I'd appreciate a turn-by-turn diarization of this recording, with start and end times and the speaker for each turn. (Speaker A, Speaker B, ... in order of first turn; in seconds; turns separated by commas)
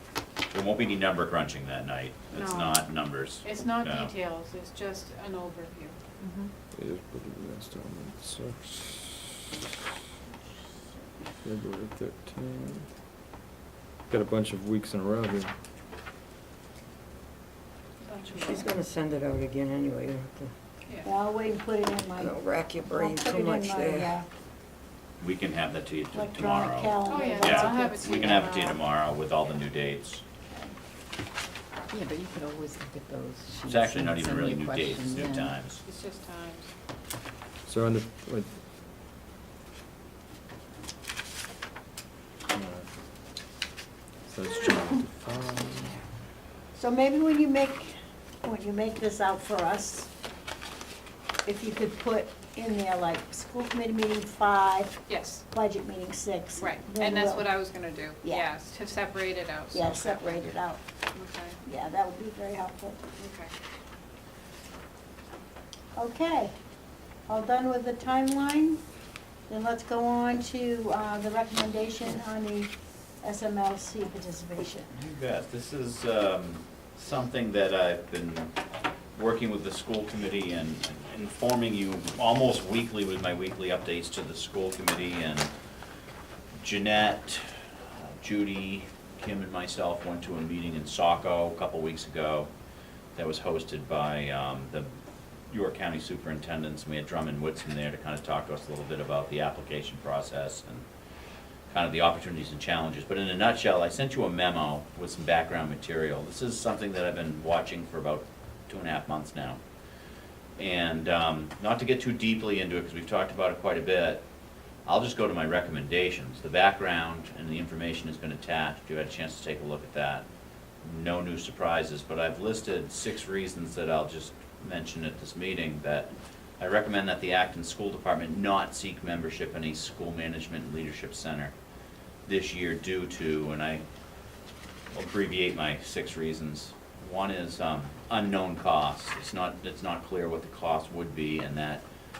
Speaker A: 0.5-4.1, Speaker B: 2.3-6.0, Speaker C: 6.2-6.5, Speaker D: 6.7-9.4, Speaker D: 11.4-12.9, Speaker D: 14.1-15.5, Speaker B: 18.0-18.7, Speaker E: 18.4-20.5, Speaker F: 21.0-24.2, Speaker E: 22.2-24.2, Speaker A: 25.2-30.2, Speaker F: 26.1-28.6, Speaker B: 27.0-28.8, Speaker F: 30.5-30.7, Speaker C: 31.9-35.5, Speaker A: 33.7-35.8, Speaker B: 35.8-36.7, Speaker D: 37.6-38.5, Speaker D: 42.5-42.9, Speaker D: 44.3-46.0, Speaker F: 46.7-50.1, Speaker F: 51.4-55.0, Speaker B: 55.1-55.4, Speaker F: 55.5-57.5, Speaker B: 56.6-60.5, Speaker F: 58.2-58.5, Speaker F: 59.7-60.8, Speaker B: 61.1-61.6, Speaker F: 61.6-63.0, Speaker B: 63.2-63.5, Speaker F: 66.0-66.5, Speaker F: 67.3-68.8, Speaker F: 69.5-75.0, Speaker A: 75.0-78.5, Speaker A: 79.1-85.5, Speaker A: 86.6-87.4, Speaker A: 88.0-92.5, Speaker A: 93.2-94.9, Speaker A: 95.5-100.8, Speaker A: 101.7-109.6, Speaker A: 110.6-114.2, Speaker A: 114.8-120.2, Speaker A: 120.8-131.5, Speaker A: 132.2-133.8, Speaker A: 134.9-141.8